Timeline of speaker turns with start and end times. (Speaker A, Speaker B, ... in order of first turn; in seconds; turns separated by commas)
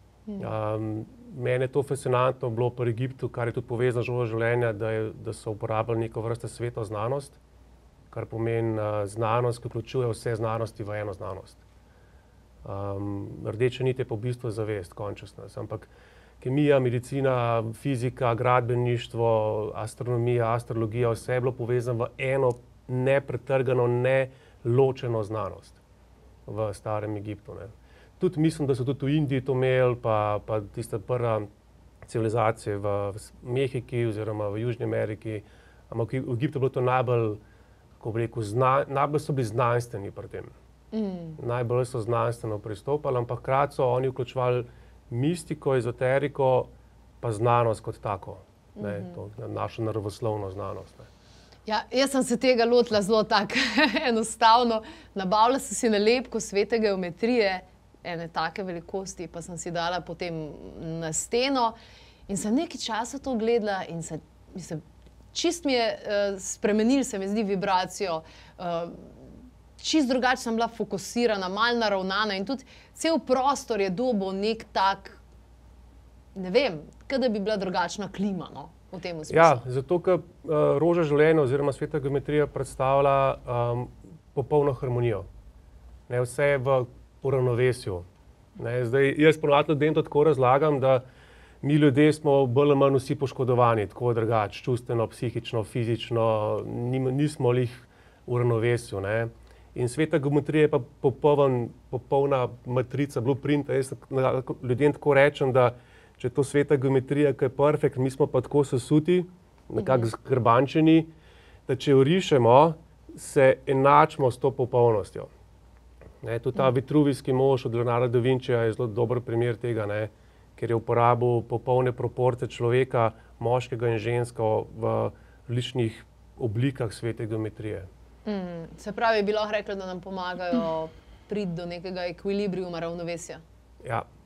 Speaker A: 0.4-7.4, Speaker A: 8.1-11.6, Speaker A: 12.6-15.9, Speaker A: 16.4-25.8, Speaker A: 26.4-31.5, Speaker A: 32.1-37.4, Speaker A: 38.0-40.5, Speaker B: 40.9-41.4, Speaker A: 41.4-46.7, Speaker A: 47.2-51.1, Speaker B: 48.8-49.1, Speaker B: 51.6-61.8, Speaker B: 62.3-64.8, Speaker B: 65.3-69.1, Speaker B: 69.8-75.2, Speaker B: 76.3-79.6, Speaker A: 79.3-85.2, Speaker A: 86.1-88.1, Speaker A: 88.6-91.0, Speaker A: 91.6-111.1, Speaker B: 109.8-110.1, Speaker A: 111.7-115.3, Speaker A: 116.2-127.9, Speaker B: 128.2-133.4